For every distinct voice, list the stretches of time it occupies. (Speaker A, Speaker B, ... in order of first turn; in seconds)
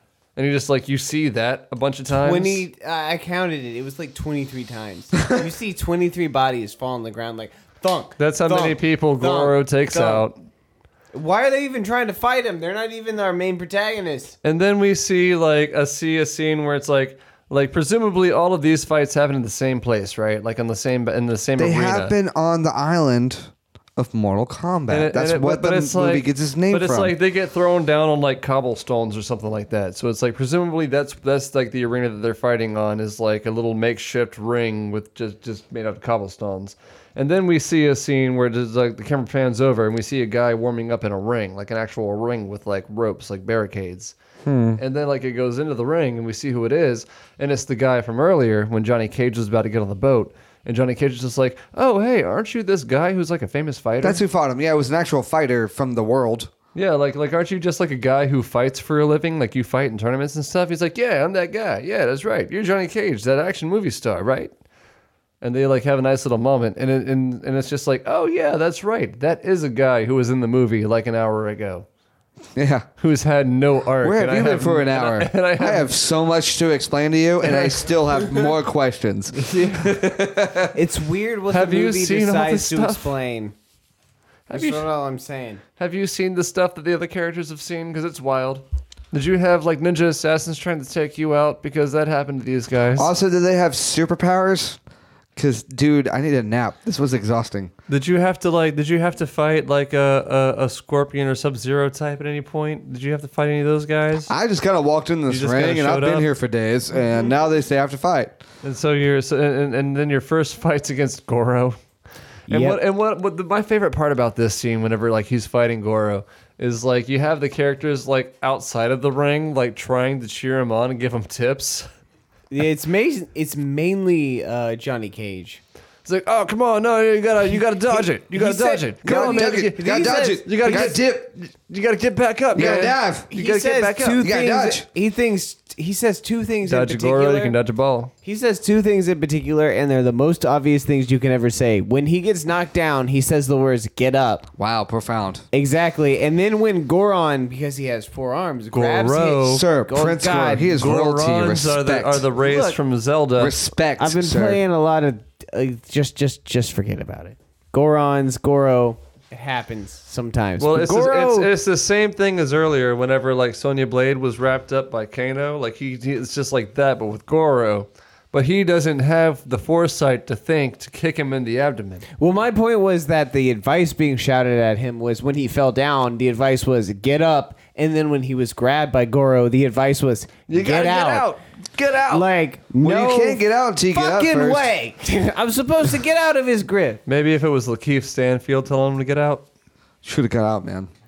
Speaker A: 0.3-2.6, 8.2-10.4, 14.4-22.1, 24.9-44.1, 44.8-54.2, 56.7-64.5, 65.4-71.9, 73.0-75.9, 77.4-77.8, 81.5-83.2, 84.5-84.8, 85.8-93.1, 97.9-104.3, 105.3-106.3, 108.6-111.8, 112.5-121.9, 126.0-134.2, 136.6-138.1, 148.7-149.7, 150.8-153.6, 160.6-172.1, 187.1-189.4
Speaker B: 2.1-10.3, 11.1-14.3, 79.3-80.0, 80.7-83.5, 84.5-85.6, 112.5-112.8, 122.5-125.6, 127.5-130.9, 132.5-137.6, 138.2-144.5, 145.5-150.9, 152.4-152.8, 154.0-161.5, 172.2-181.3, 182.1-187.0
Speaker C: 21.6-27.1, 44.4-44.8, 54.0-56.5, 72.5-72.9, 74.0-80.8, 93.0-94.8, 95.3-97.7, 104.3-108.4, 129.0-131.3, 132.5-133.3, 134.2-134.9, 144.6-145.4, 149.5-152.3, 153.4-154.6, 180.5-182.2, 182.8-184.7, 190.0-190.9